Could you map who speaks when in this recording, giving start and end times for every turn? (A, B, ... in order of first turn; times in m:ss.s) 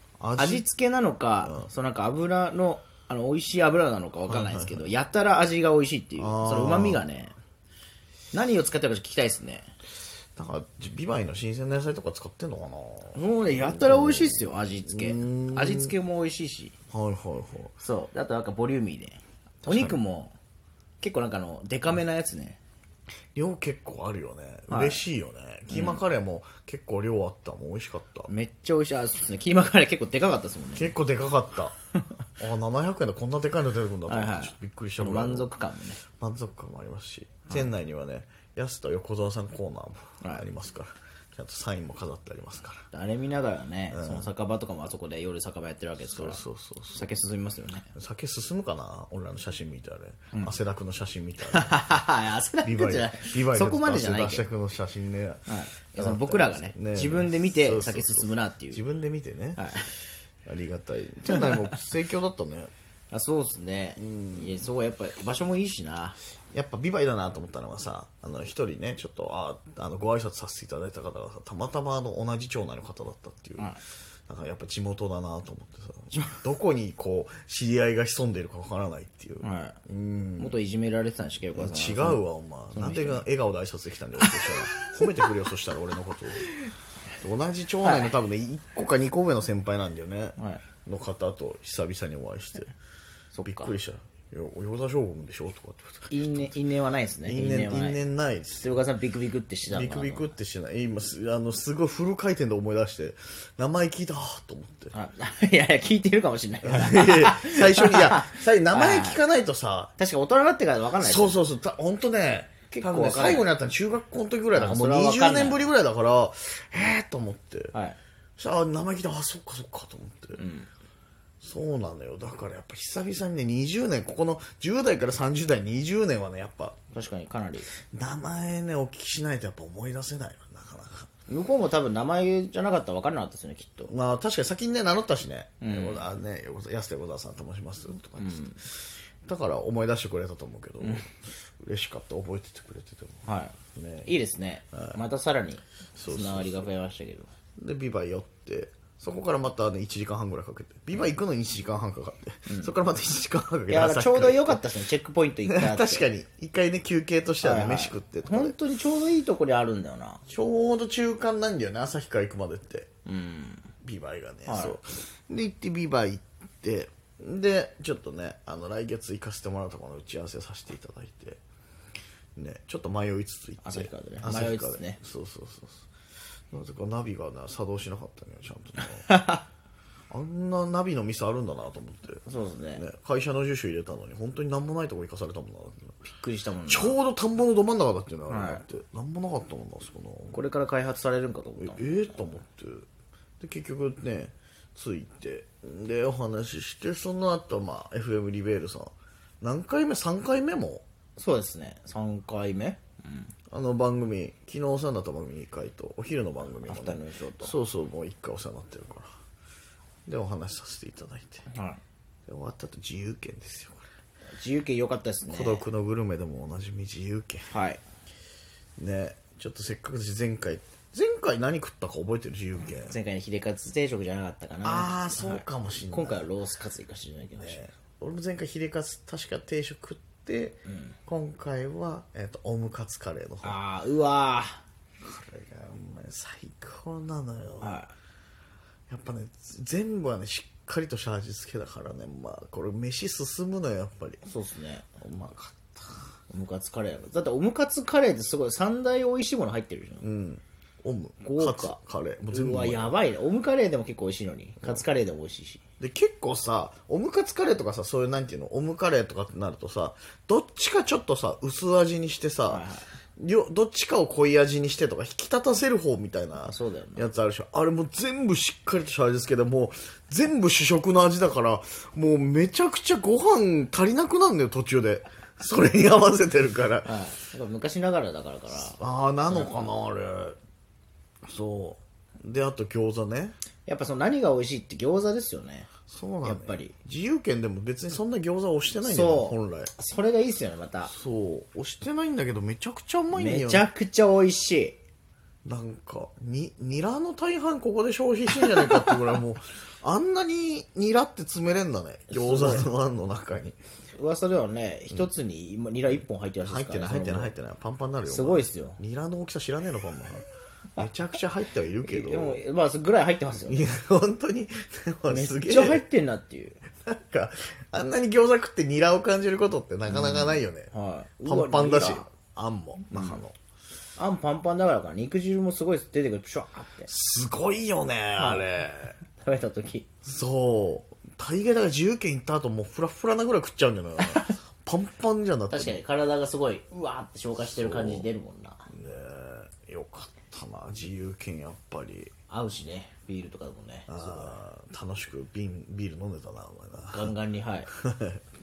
0:00.2-0:00.7 A
0:00.4-0:07.4 B
0:04.3-0:04.9 A
0:06.2-0:07.0 A
0:08.3-0:09.7 B
0:10.4-0:15.9 A
0:13.1-0:16.8 B
0:16.9-0:17.7 A
0:17.8-0:20.4 B
0:19.6-0:20.0 A
0:21.0-0:22.6 B
0:23.3-0:28.3 A
0:24.7-0:25.0 B
0:25.7-0:26.0 B
0:28.3-0:30.9 B
0:30.8-0:31.7 A
0:32.4-0:35.5 A
0:34.1-0:36.0 B
0:36.2-0:42.8 A
0:42.9-0:46.4 B
0:43.9-0:44.3 A
0:46.1-0:47.1 A
0:46.9-0:47.9 B
0:48.0-0:51.9 A
0:51.4-0:54.5 B
0:52.6-0:59.6 A
0:55.5-0:58.8 B
0:59.6-0:59.9 B
1:00.5-1:02.7 A
1:01.3-1:01.7 B
1:03.1-1:06.2 B
1:04.0-1:04.7 A
1:06.5-1:13.8 A
1:14.3-1:20.6 A
1:16.1-1:16.4 B
1:19.4-1:19.8 B
1:20.4-1:22.2 B
1:21.6-1:26.5 A
1:22.7-1:23.2 B
1:24.2-1:25.2 B
1:27.2-1:32.7 A
1:27.8-1:28.2 B
1:30.4-1:30.6 B
1:33.3-1:33.7 B
1:33.4-1:36.6 A
1:36.1-1:38.0 B
1:37.3-1:38.8 A
1:38.6-1:40.3 B
1:39.7-1:44.9 A
1:44.9-1:49.2 B
1:46.6-1:49.9 A
1:50.0-1:51.4 B
1:51.0-1:57.8 A
1:52.7-1:53.5 B
1:54.5-1:55.7 B
1:57.7-1:58.0 B
1:58.4-2:00.4 A
2:00.4-2:00.7 B
2:01.4-2:06.8 A
2:06.9-2:07.7 B
2:07.9-2:11.1 A
2:11.3-2:13.9 B
2:13.9-2:23.2 A
2:15.6-2:16.1 B
2:18.2-2:18.6 B
2:20.8-2:21.1 B
2:23.2-2:27.3 B
2:23.8-2:24.1 A
2:24.7-2:25.0 A
2:26.0-2:26.7 A
2:27.6-2:34.6 A
2:32.5-2:32.7 B
2:33.7-2:36.1 B
2:35.5-2:38.6 A
2:37.4-2:40.2 B
2:40.3-2:42.9 A
2:43.1-2:43.7 B
2:43.8-2:51.4 A
2:44.5-2:44.8 B
2:52.4-2:55.9 A
2:53.6-2:55.0 B
2:56.5-2:59.1 A
2:59.1-2:59.4 B
3:00.1-3:02.2 A
3:02.3-3:02.8 B
3:02.8-3:06.0 A
3:06.0-3:07.0 B
3:06.7-3:10.4 A
3:08.3-3:08.6 B
3:10.3-3:12.2 B
3:11.6-3:12.9 A
3:13.4-3:20.8 A
3:21.2-3:23.3 B
3:23.5-3:29.1 A
3:26.6-3:27.6 B
3:30.1-3:31.5 A
3:31.5-3:31.8 B
3:32.3-3:33.8 A
3:34.4-3:35.6 B
3:35.3-3:37.5 A
3:37.5-3:37.8 B
3:38.8-3:43.0 A
3:42.8-3:47.6 B
3:44.6-3:46.3 A
3:47.4-3:53.6 A
3:50.7-3:51.0 B
3:53.4-3:54.6 B
3:55.0-3:57.8 A
3:57.6-3:57.9 B
3:58.9-4:04.2 A
4:04.2-4:04.9 B
4:05.0-4:06.1 A
4:06.3-4:10.0 B
4:10.0-4:13.0 A
4:11.2-4:11.8 B
4:12.3-4:15.6 B
4:15.8-4:22.6 A
4:22.5-4:22.9 B
4:23.2-4:36.9 A
4:26.5-4:27.1 B
4:36.8-4:39.6 B
4:38.8-4:40.4 A
4:41.3-4:43.4 A
4:43.7-4:45.7 B
4:45.9-4:49.7 A
4:46.2-4:46.7 B
4:48.8-4:50.9 B
4:50.8-4:53.7 A
4:53.2-4:54.8 B
4:55.4-5:03.6 A
5:02.1-5:02.7 B
5:04.0-5:07.3 B
5:06.4-5:10.2 A
5:08.1-5:08.8 B
5:10.8-5:12.4 A
5:11.8-5:13.6 B
5:13.5-5:15.8 A
5:15.1-5:16.6 B
5:16.9-5:20.7 A
5:19.9-5:22.1 B
5:21.2-5:23.4 A
5:22.9-5:23.2 B
5:24.0-5:26.9 B
5:26.9-5:29.0 A
5:28.2-5:28.5 B
5:29.2-5:29.9 B
5:30.0-5:35.8 A
5:34.0-5:34.3 B
5:35.5-5:38.7 B
5:37.4-5:38.1 A
5:38.7-5:42.1 A
5:42.3-5:44.4 B
5:43.9-5:47.1 A
5:46.9-5:47.7 B
5:47.8-5:48.2 A